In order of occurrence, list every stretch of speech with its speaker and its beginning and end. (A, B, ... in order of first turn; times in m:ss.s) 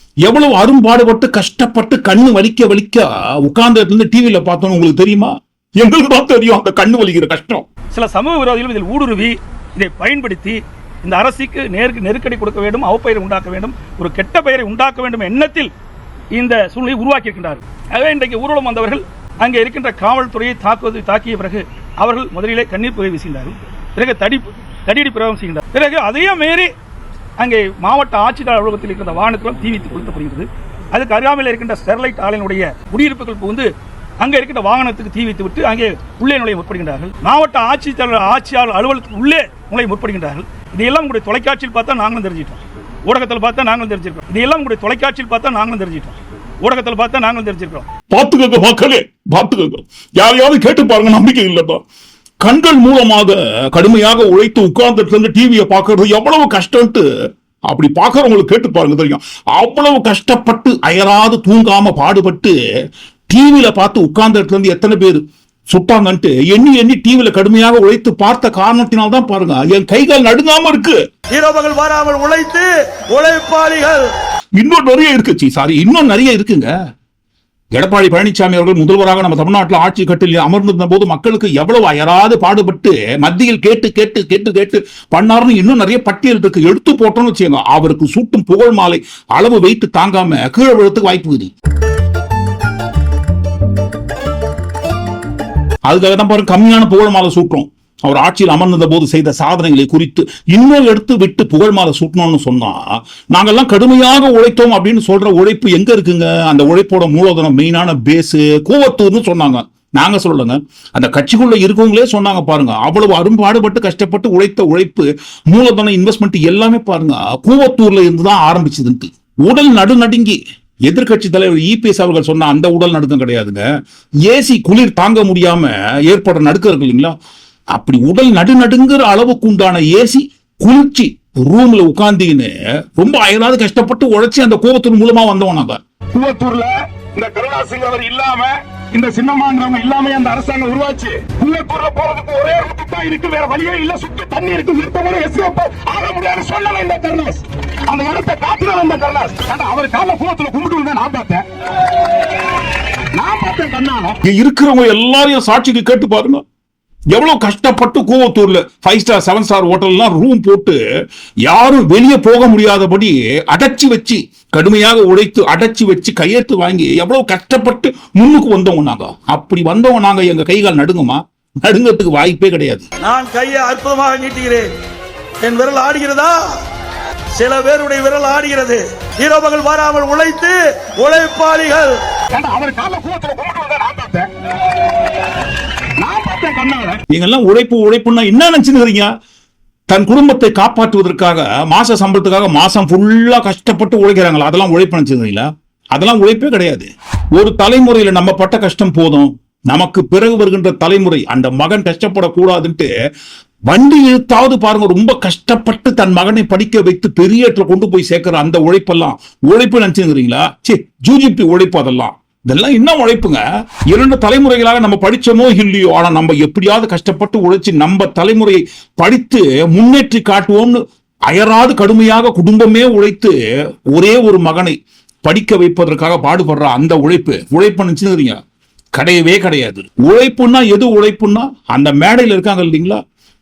0:00.2-0:07.7 A
0:07.9-0:15.7 B
0:16.3-0:26.7 B
0:27.4-0:33.7 B
0:34.2-0:47.9 B
0:48.1-0:51.8 A
0:52.4-0:57.0 A
0:57.7-1:02.6 A
1:03.3-1:11.0 A
1:11.3-1:14.0 C
1:14.6-1:16.7 A
1:17.7-1:31.5 A
1:35.9-2:03.6 A
2:04.3-2:07.1 A
2:07.7-2:15.8 A
2:16.1-2:31.4 D
2:33.1-2:34.2 D
2:34.2-2:36.4 A
2:37.1-2:40.8 A
2:41.4-2:52.8 A
2:53.0-2:54.7 C
2:55.4-2:56.5 C
2:57.4-3:02.0 C
3:02.3-3:04.3 D
3:06.0-3:07.0 D
3:07.1-3:09.1 A
3:09.9-3:22.9 A
3:23.7-3:43.3 A
3:43.9-3:48.4 A
3:49.0-3:53.0 A